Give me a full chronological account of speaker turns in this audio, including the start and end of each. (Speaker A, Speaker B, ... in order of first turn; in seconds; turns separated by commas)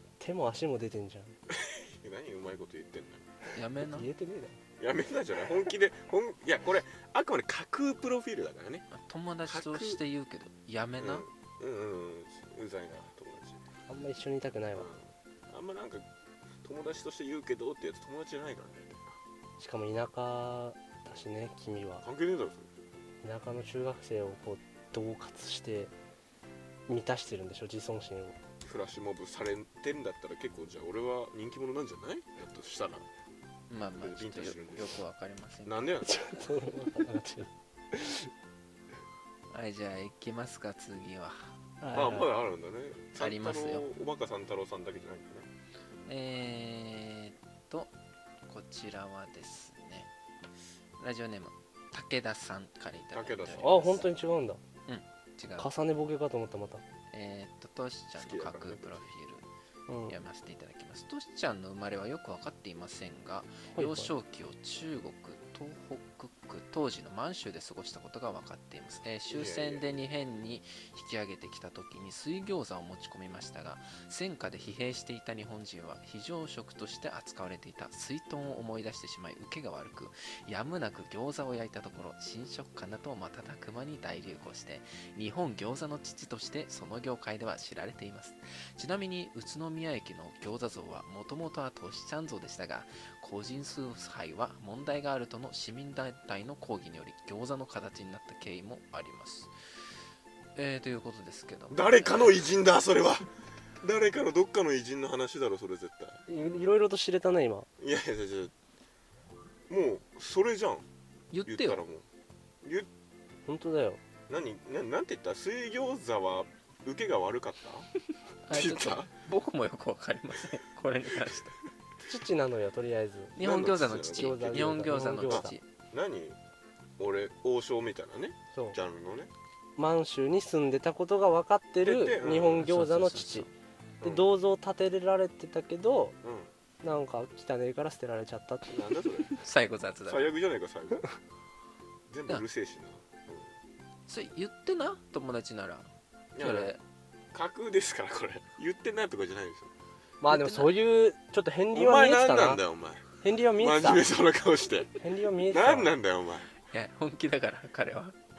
Speaker A: 0.2-1.4, Speaker B: 1.5-3.3, Speaker C: 3.5-4.1, Speaker A: 3.8-4.6, Speaker B: 4.8-8.9, Speaker C: 8.9-11.2, Speaker B: 9.5-10.0, Speaker B: 11.0-13.6, Speaker A: 13.9-14.9, Speaker B: 14.7-16.1, Speaker B: 16.6-19.2, Speaker A: 19.6-22.0, Speaker B: 22.0-22.7, Speaker A: 23.2-25.9, Speaker A: 26.9-28.4, Speaker B: 28.6-33.0, Speaker C: 33.7-35.8, Speaker B: 34.0-35.0, Speaker B: 35.6-36.2, Speaker A: 36.0-38.3, Speaker C: 39.5-41.5, Speaker A: 41.8-42.3, Speaker B: 41.9-45.5, Speaker C: 43.1-43.9, Speaker C: 46.1-47.9, Speaker C: 48.5-50.1, Speaker C: 51.0-54.0, Speaker B: 53.1-54.1, Speaker A: 53.5-54.6, Speaker C: 54.9-55.7, Speaker A: 55.6-56.8, Speaker C: 57.1-59.5, Speaker B: 58.2-59.1, Speaker A: 59.9-60.2, Speaker C: 60.1-99.5, Speaker A: 63.7-64.1, Speaker B: 69.3-69.9, Speaker C: 100.5-102.4, Speaker B: 101.7-103.3, Speaker B: 103.8-106.2, Speaker A: 106.3-107.7, Speaker B: 107.8-108.5, Speaker B: 109.7-110.9, Speaker C: 111.3-111.8, Speaker B: 111.4-112.0, Speaker B: 112.6-112.9, Speaker A: 113.5-114.0, Speaker B: 114.3-117.9, Speaker C: 118.4-121.5, Speaker B: 118.5-119.1, Speaker A: 122.0-123.5, Speaker C: 123.4-125.6, Speaker B: 123.4-126.4, Speaker A: 124.0-125.5, Speaker B: 127.0-129.3, Speaker A: 129.8-133.5, Speaker B: 131.8-132.7, Speaker C: 132.6-133.5, Speaker A: 134.0-136.2, Speaker B: 134.0-134.3, Speaker B: 136.2-136.5, Speaker A: 136.8-138.8, Speaker B: 138.7-139.3, Speaker C: 139.3-140.3, Speaker B: 140.1-141.0, Speaker B: 142.1-143.5, Speaker C: 144.1-146.8, Speaker B: 146.3-146.8, Speaker B: 147.3-149.7, Speaker A: 150.2-152.6, Speaker C: 150.3-150.7, Speaker B: 151.7-156.5, Speaker A: 153.2-154.0, Speaker A: 155.0-155.9, Speaker C: 156.7-158.2